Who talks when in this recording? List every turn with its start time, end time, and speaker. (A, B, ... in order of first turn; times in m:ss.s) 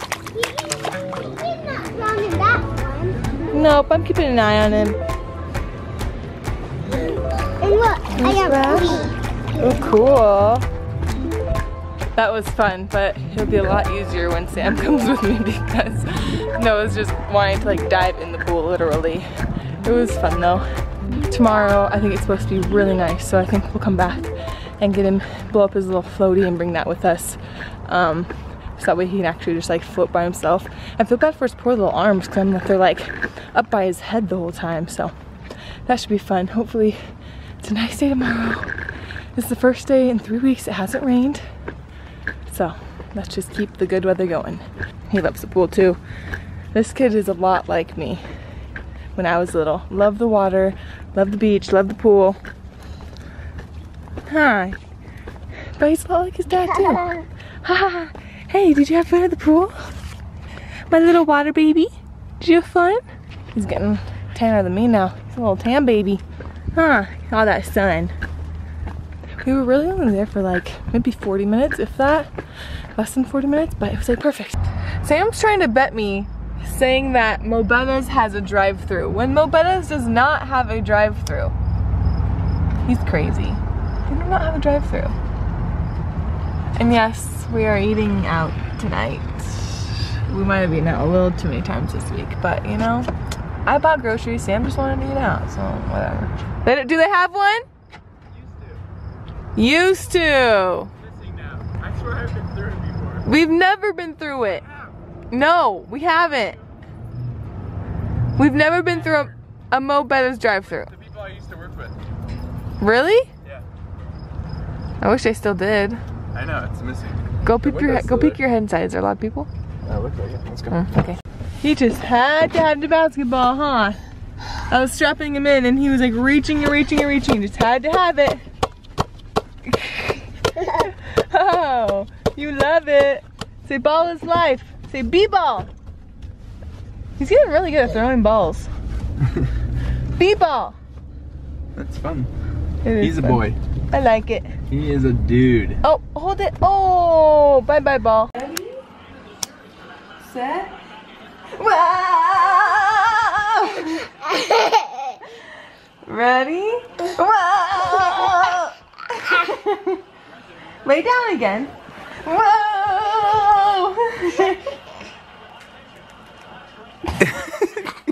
0:00.4-0:03.3 A
0:03.5-0:05.0 B
0:07.6-0:09.0 A
0:08.1-0:10.6 B
0:12.2-0:19.3 B
0:19.8-0:20.6 B
0:21.3-0:35.1 B
0:35.9-0:37.0 B
0:37.6-0:38.8 B
0:39.4-0:41.4 B
0:42.5-0:46.0 B
0:46.7-0:48.2 B
0:49.2-0:52.4 B
0:54.3-0:54.8 B
0:55.8-0:59.7 B
1:00.9-1:03.0 B
1:03.5-1:06.2 B
1:06.7-1:08.1 B
1:09.4-1:12.3 B
1:13.0-1:21.5 B
1:22.8-1:25.2 B
1:26.8-1:33.1 B
1:33.6-1:37.6 B
1:39.6-1:40.9 B
1:42.2-1:42.9 C
1:43.2-1:44.6 B
1:45.3-1:46.6 B
1:48.4-1:50.9 B
1:51.2-1:51.9 C
1:52.8-1:53.3 B
1:55.0-1:56.0 B
1:56.3-1:58.4 C
1:57.4-1:59.5 B
1:59.8-2:01.0 C
2:00.7-2:04.0 B
2:04.7-2:08.4 B
2:09.6-2:15.7 B
2:17.2-2:18.7 B
2:20.2-2:20.8 B
2:21.8-2:22.3 C
2:22.8-2:24.5 B
2:23.0-2:23.6 C
2:24.7-2:25.8 C
2:25.8-2:28.8 B
2:30.2-2:30.7 B
2:31.6-2:34.8 B
2:36.0-2:40.0 B
2:40.8-2:41.7 B
2:42.2-2:44.6 B
2:47.2-2:47.8 C